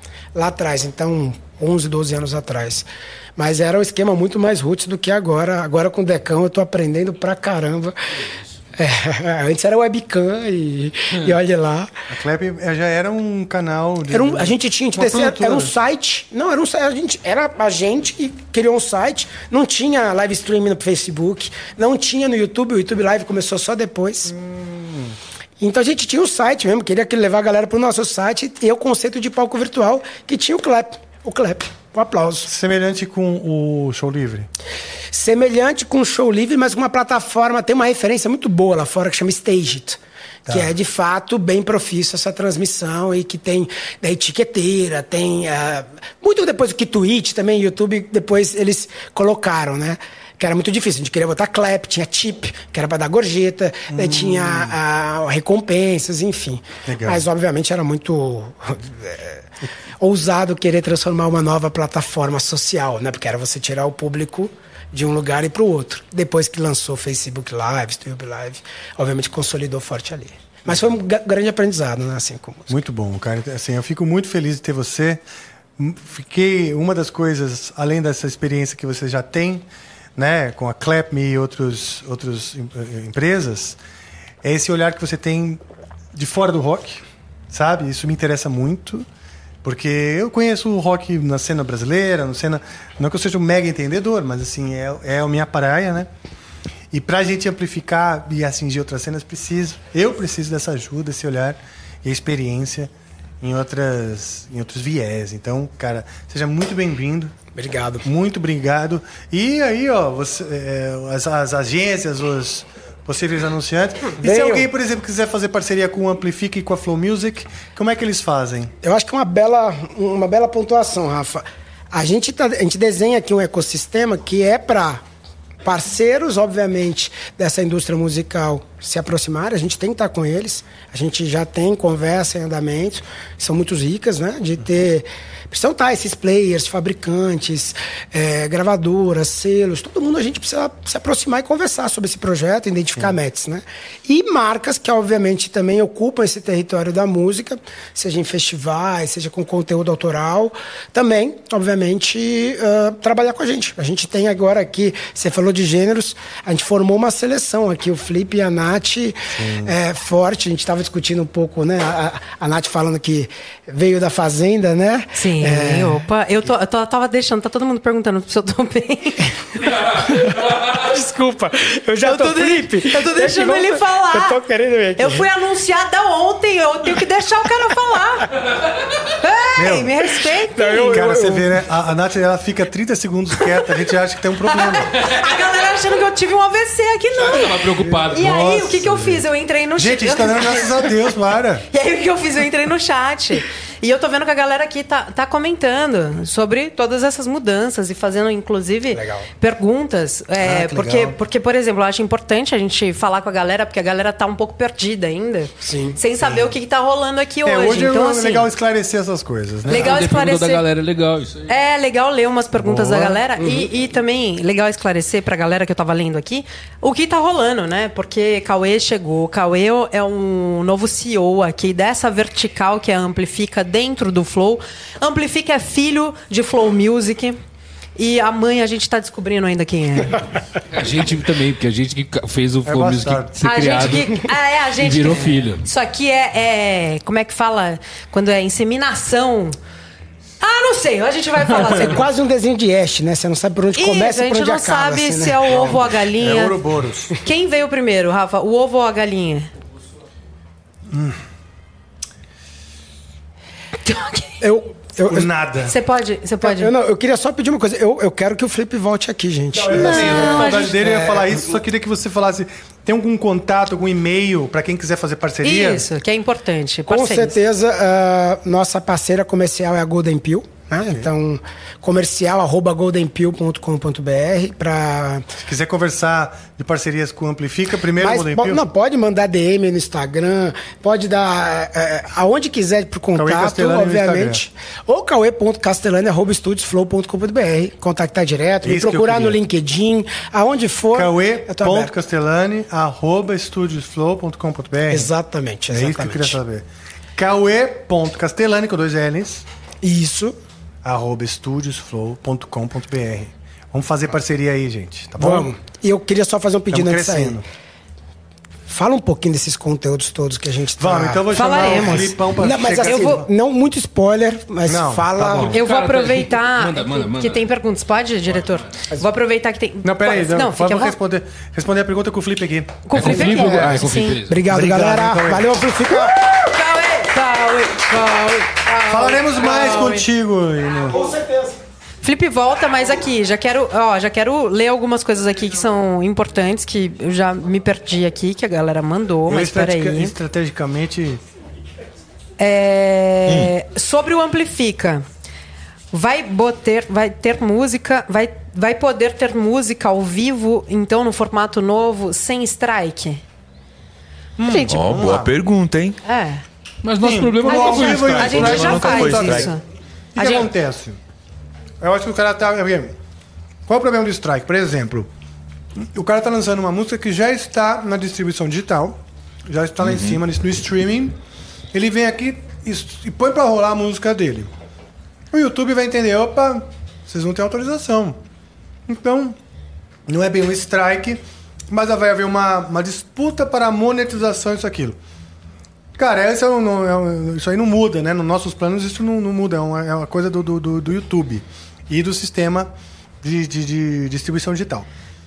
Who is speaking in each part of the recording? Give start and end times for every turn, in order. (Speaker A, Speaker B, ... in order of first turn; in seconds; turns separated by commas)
Speaker A: 0.3-7.9, Speaker A: 8.8-11.9, Speaker B: 12.1-15.7, Speaker A: 14.1-24.3, Speaker B: 24.3-25.1, Speaker A: 25.6-32.5, Speaker B: 32.5-34.5, Speaker A: 35.1-59.5, Speaker B: 53.9-54.8, Speaker B: 56.9-57.2, Speaker A: 60.0-72.7, Speaker B: 72.7-75.2, Speaker B: 75.8-83.8, Speaker B: 84.4-85.6, Speaker B: 86.1-89.0, Speaker B: 89.6-96.1, Speaker B: 96.9-107.3, Speaker A: 107.5-108.0, Speaker B: 108.0-118.7, Speaker A: 114.1-114.7, Speaker A: 118.8-125.0, Speaker A: 125.6-166.0, Speaker B: 159.4-159.7, Speaker C: 165.1-169.4, Speaker A: 169.8-175.3, Speaker C: 172.0-174.4, Speaker C: 175.0-178.4, Speaker C: 179.0-180.9, Speaker B: 179.6-179.9, Speaker A: 180.5-181.5, Speaker B: 180.8-184.9, Speaker C: 184.5-190.9, Speaker D: 187.2-188.3, Speaker B: 187.8-189.2, Speaker B: 189.8-191.7, Speaker C: 191.7-208.5, Speaker A: 198.9-199.3, Speaker B: 200.4-201.2, Speaker A: 205.6-206.0, Speaker B: 207.4-209.9, Speaker C: 209.7-210.6, Speaker D: 209.7-211.5, Speaker C: 211.5-227.4, Speaker B: 212.6-213.2, Speaker A: 213.4-213.7, Speaker C: 227.9-230.2, Speaker D: 230.7-234.2, Speaker B: 232.6-234.0, Speaker C: 233.4-239.6, Speaker D: 234.8-235.6, Speaker C: 240.4-242.0, Speaker A: 241.6-245.7, Speaker C: 243.7-246.6, Speaker B: 245.5-247.1, Speaker C: 247.2-249.5, Speaker B: 250.9-251.2, Speaker C: 253.8-254.4, Speaker A: 254.4-255.3, Speaker B: 255.1-255.7, Speaker C: 255.6-256.7, Speaker A: 256.4-261.3, Speaker B: 259.6-265.9, Speaker C: 259.7-260.8, Speaker C: 265.4-267.4, Speaker A: 266.9-275.3, Speaker B: 275.4-278.6, Speaker A: 278.0-291.9, Speaker B: 283.1-284.4, Speaker B: 288.6-289.4, Speaker B: 290.9-295.1, Speaker A: 294.9-296.4, Speaker B: 295.7-299.4, Speaker A: 299.8-300.4, Speaker B: 300.8-305.5, Speaker A: 305.2-307.4, Speaker B: 306.7-307.4, Speaker A: 308.7-315.6, Speaker B: 310.8-313.3, Speaker C: 311.3-312.2, Speaker C: 312.8-313.2, Speaker B: 314.6-315.6, Speaker C: 315.4-320.9, Speaker D: 315.4-317.4, Speaker B: 319.8-323.8, Speaker C: 322.9-324.2, Speaker D: 322.9-324.4, Speaker A: 324.2-326.3, Speaker B: 324.5-325.6, Speaker C: 326.0-330.1, Speaker B: 328.9-331.1, Speaker A: 330.9-331.5, Speaker C: 332.0-340.1, Speaker B: 339.3-341.2, Speaker C: 342.4-345.0, Speaker C: 345.9-353.2, Speaker B: 354.4-355.3, Speaker C: 354.4-355.2, Speaker E: 354.7-356.0, Speaker C: 356.0-356.4, Speaker D: 356.8-358.8, Speaker B: 357.0-359.6, Speaker C: 357.5-359.6, Speaker E: 358.1-359.5, Speaker B: 360.1-361.0, Speaker C: 360.2-360.5, Speaker B: 361.8-362.9, Speaker B: 363.7-365.1, Speaker B: 365.8-371.1, Speaker E: 369.8-370.2, Speaker B: 371.7-374.5, Speaker B: 375.3-378.2, Speaker B: 378.9-379.4, Speaker B: 380.1-385.0, Speaker B: 386.0-392.7, Speaker B: 393.2-394.9